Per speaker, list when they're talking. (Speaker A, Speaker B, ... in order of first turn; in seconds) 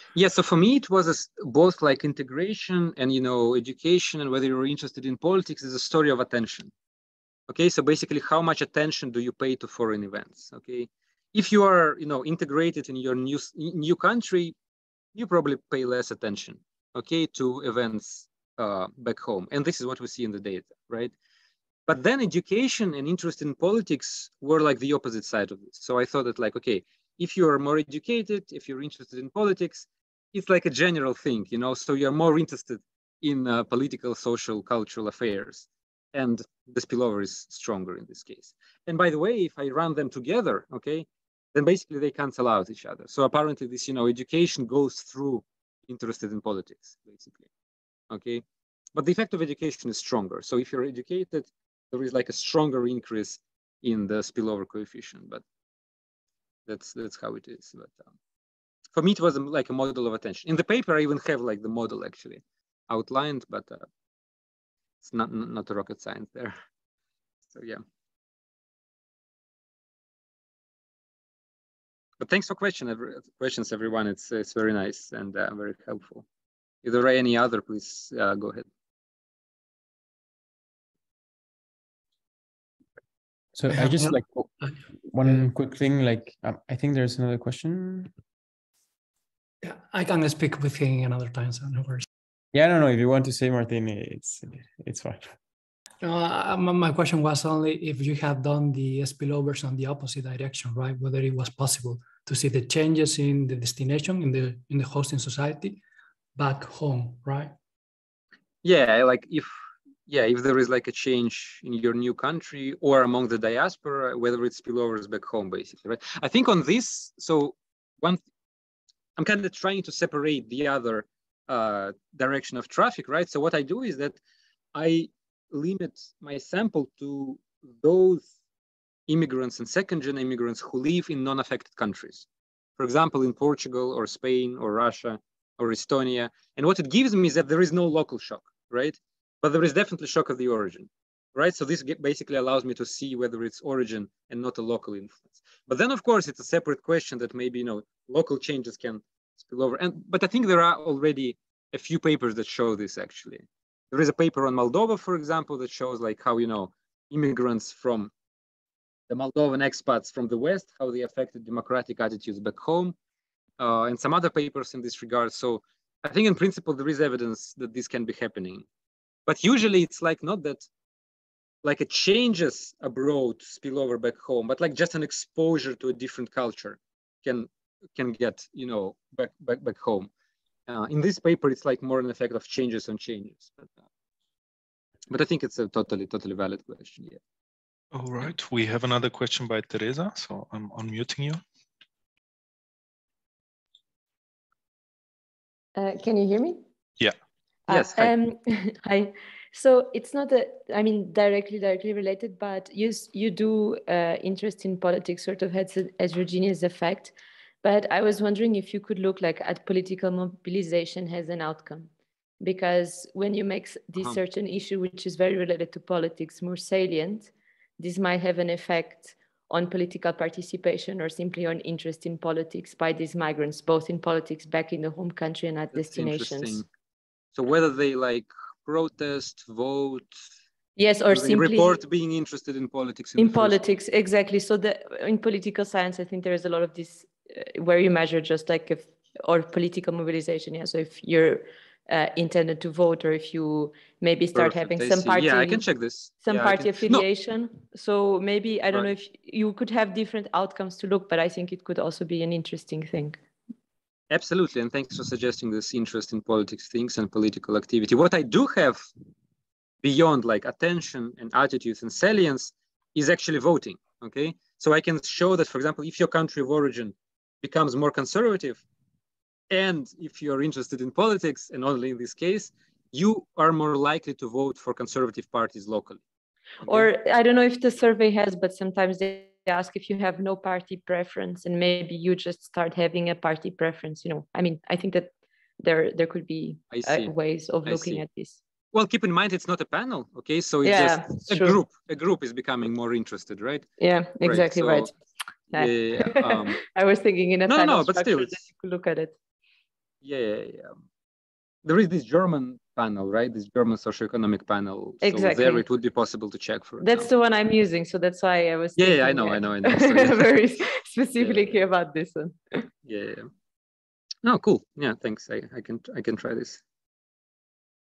Speaker A: 0.1-6.7, 7.5-14.5, 15.1-21.1, 21.9-47.5, 48.1-48.4, 48.9-55.4, 56.6-58.1, 58.9-63.9, 65.0-66.5, 67.5-67.8, 72.2-76.2, 76.8-78.7, 108.6-109.5, 110.1-118.2, 119.2-124.2, 124.7-128.3, 129.1-132.2, 132.8-158.1, 159.1-162.9, 163.6-168.6, 169.3-170.7, 171.6-180.1, 180.7-183.7, 185.1-187.2, 197.7-198.1, 225.7-226.7, 227.3-230.2, 231.1-233.6, 244.3-247.1, 254.1-258.8, 259.8-268.6, 269.5-276.0, 276.6-276.9, 286.7-287.1, 287.6-288.0, 288.7-293.7, 294.2-294.9, 295.5-296.6, 297.4-298.4, 300.0-300.7, 301.6-307.1, 308.8-310.4, 311.2-311.6, 312.8-313.3, 314.2-316.6
Speaker B: 83.5-84.5, 85.1-88.1, 92.5-95.3
Speaker C: 83.7-84.8, 89.6-92.0, 96.0-105.8, 106.3-107.5
Speaker D: 187.9-191.4
Speaker E: 195.8-196.6, 197.7-226.6, 230.8-231.8, 233.2-245.6, 246.2-253.2, 276.6-288.4, 290.6-291.6, 293.8-294.9, 295.5-299.1, 305.0-305.6, 306.8-312.6